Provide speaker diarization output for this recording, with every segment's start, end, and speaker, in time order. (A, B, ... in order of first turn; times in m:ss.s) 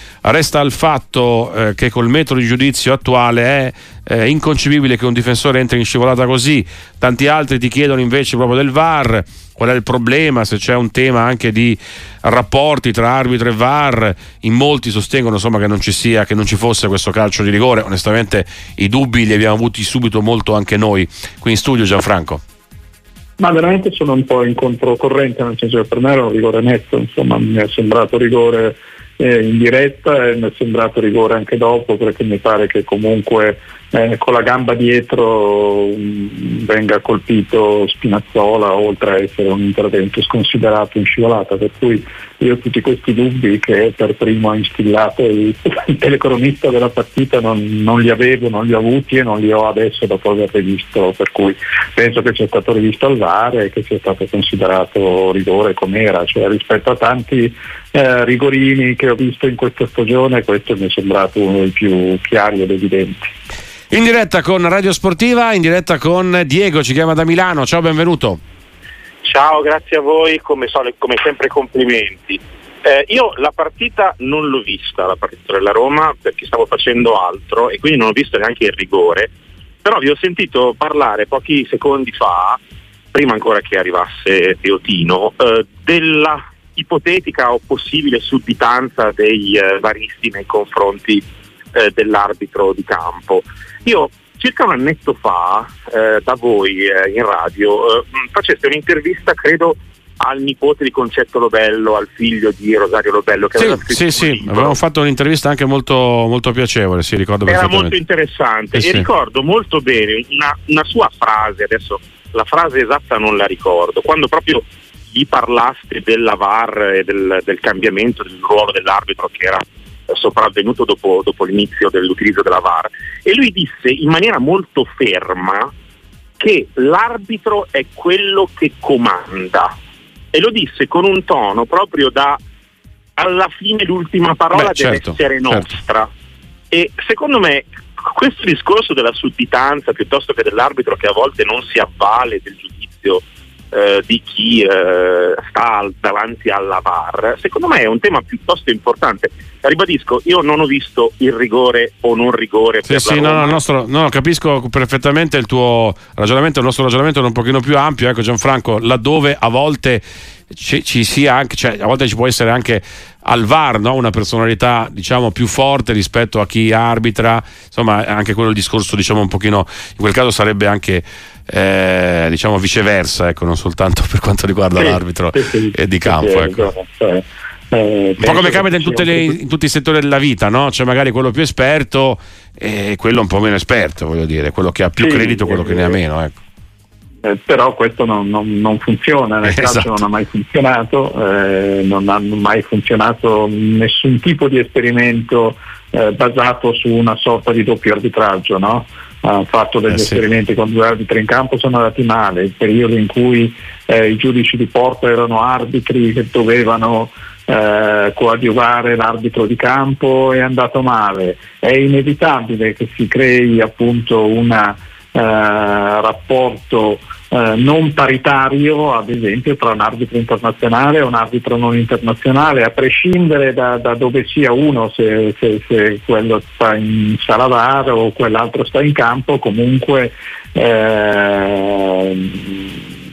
0:00.2-0:22.4 A
0:23.4-1:03.4 B
1:03.9-1:08.4 A
1:09.2-1:19.3 C
1:19.8-1:22.6 C
1:23.1-1:44.8 C
1:43.6-1:48.0 A
1:47.5-2:05.7 C
1:48.8-1:49.1 A
2:06.4-2:09.8 C
2:10.3-2:12.4 C
2:13.2-2:16.1 C
2:14.5-2:15.7 A
2:16.7-2:33.6 C
2:32.9-2:56.7 A
2:54.8-2:59.4 B
2:58.2-3:06.4 A
3:05.0-3:06.0 B
3:07.2-3:52.8 B
3:09.4-3:09.9 A